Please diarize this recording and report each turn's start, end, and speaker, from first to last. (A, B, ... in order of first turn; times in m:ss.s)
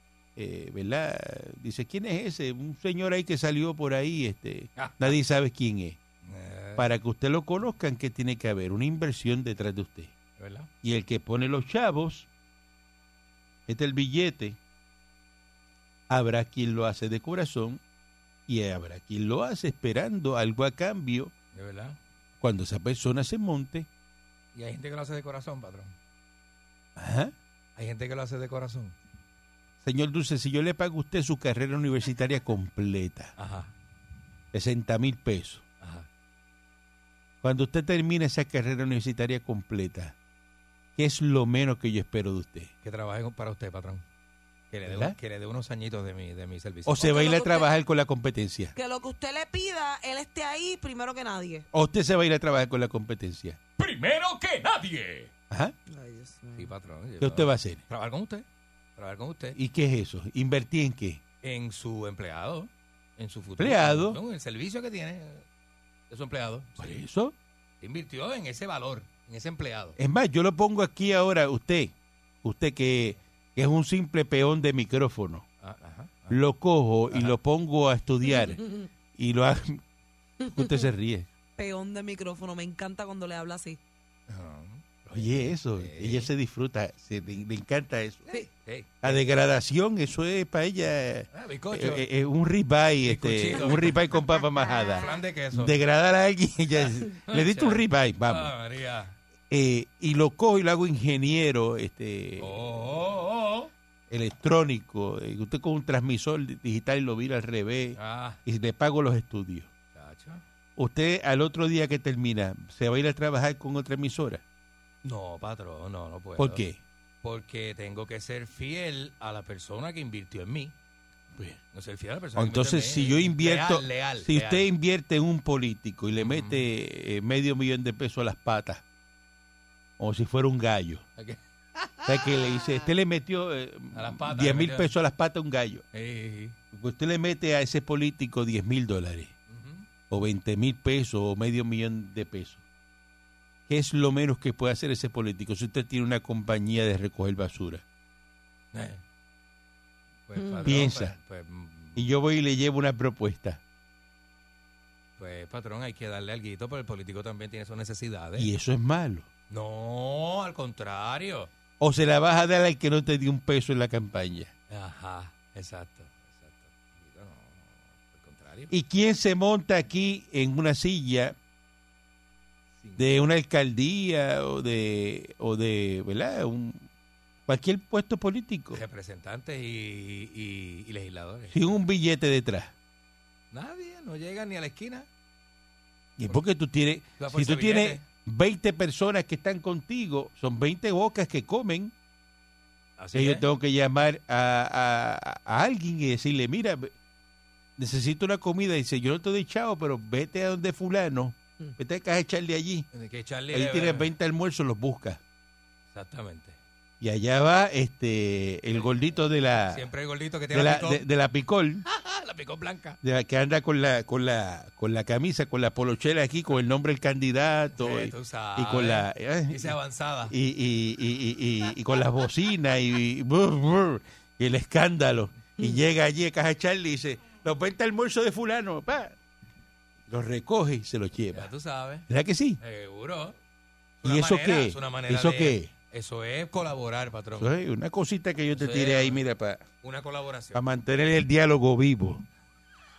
0:00.4-0:06.0 A
0:04.8-0:05.2 B
0:06.3-0:06.9 B
0:06.8-0:10.1 A
0:10.4-0:10.7 B
0:10.8-0:12.3 A
0:13.7-0:14.6 A
0:16.1-0:17.8 A
0:18.5-0:21.3 A
0:21.5-0:22.0 B
0:22.4-0:23.9 A
0:24.5-0:25.9 B
0:27.0-0:27.3 A
0:27.8-0:29.0 B
0:29.8-0:33.3 A
0:33.4-0:33.7 B
0:34.5-0:35.6 A
0:35.8-0:36.1 B
0:37.4-0:40.2 A
0:41.0-0:42.7 A
0:42.8-0:44.0 B
0:44.7-0:47.1 B
0:44.9-0:45.2 A
0:46.8-0:48.7 A
0:47.0-0:47.7 C
0:48.8-0:51.7 C
0:51.7-0:53.6 A
0:53.8-0:55.3 B
0:55.5-0:55.8 A
0:55.9-0:56.7 C
0:56.6-0:58.4 B
0:57.2-0:57.8 A
0:59.0-0:59.6 B
0:59.5-1:01.2 A
1:01.4-1:05.4 B
1:03.6-1:04.2 A
1:06.1-1:07.0 B
1:06.8-1:07.3 A
1:07.8-1:10.0 B
1:10.0-1:15.5 A
1:15.6-1:16.4 B
1:16.3-1:18.6 A
1:17.1-1:17.4 B
1:19.2-1:19.8 A
1:20.5-1:21.3 A
1:21.6-1:23.8 C
1:24.3-1:26.3 B
1:25.1-1:28.3 A
1:28.4-1:29.2 B
1:29.0-1:38.5 A
1:31.3-1:32.0 B
1:33.0-1:34.1 B
1:34.6-1:35.1 C
1:35.0-1:35.8 B
1:37.3-1:39.2 B
1:39.5-1:42.8 A
1:42.4-1:43.7 B
1:44.1-1:49.7 A
1:48.0-1:48.4 B
1:50.0-1:50.4 B
1:50.8-1:54.4 A
1:55.0-1:56.6 B
1:56.4-1:56.8 A
1:57.2-2:00.7 B
2:01.7-2:04.7 B
2:02.4-2:08.8 A
2:06.2-2:06.7 B
2:10.0-2:11.0 A
2:11.2-2:12.9 B
2:12.1-2:15.8 A
2:13.9-2:14.9 B
2:15.9-2:16.6 B
2:16.7-2:19.3 A
2:19.5-2:19.9 B
2:20.1-2:22.6 A
2:23.7-2:27.8 A
2:28.7-2:29.0 B
2:30.3-2:32.1 B
2:30.4-2:30.8 C
2:30.6-2:31.1 A
2:32.0-2:33.6 A
2:35.2-2:38.5 B
2:38.4-2:39.3 A
2:39.5-2:41.5 B
2:41.8-2:44.5 A
2:44.7-2:48.7 B
2:48.7-2:51.4 A
2:52.8-2:53.1 B
2:53.0-2:56.8 A
2:57.5-2:58.8 A
2:58.7-3:01.8 B
3:01.5-3:02.7 A
3:03.5-3:05.1 B
3:06.2-3:11.9 A
3:07.2-3:08.0 B
3:13.0-3:13.4 B
3:13.1-3:16.9 A
3:17.8-3:22.9 A
3:22.9-3:24.1 B
3:23.5-3:25.2 A
3:25.9-3:26.6 B
3:27.0-3:29.8 A
3:28.7-3:31.0 B
3:30.5-3:31.8 A
3:31.9-3:33.0 B
3:33.0-3:39.8 A
3:37.8-3:40.3 B
3:40.3-3:49.2 A
3:50.1-3:51.5 A
3:51.3-3:52.1 B
3:52.1-3:52.6 A
3:52.6-3:53.4 B
3:54.0-3:57.5 B
3:54.0-3:55.7 A
3:57.4-3:59.7 A
3:58.5-3:59.2 B
3:59.8-4:00.6 B
4:00.5-4:02.2 A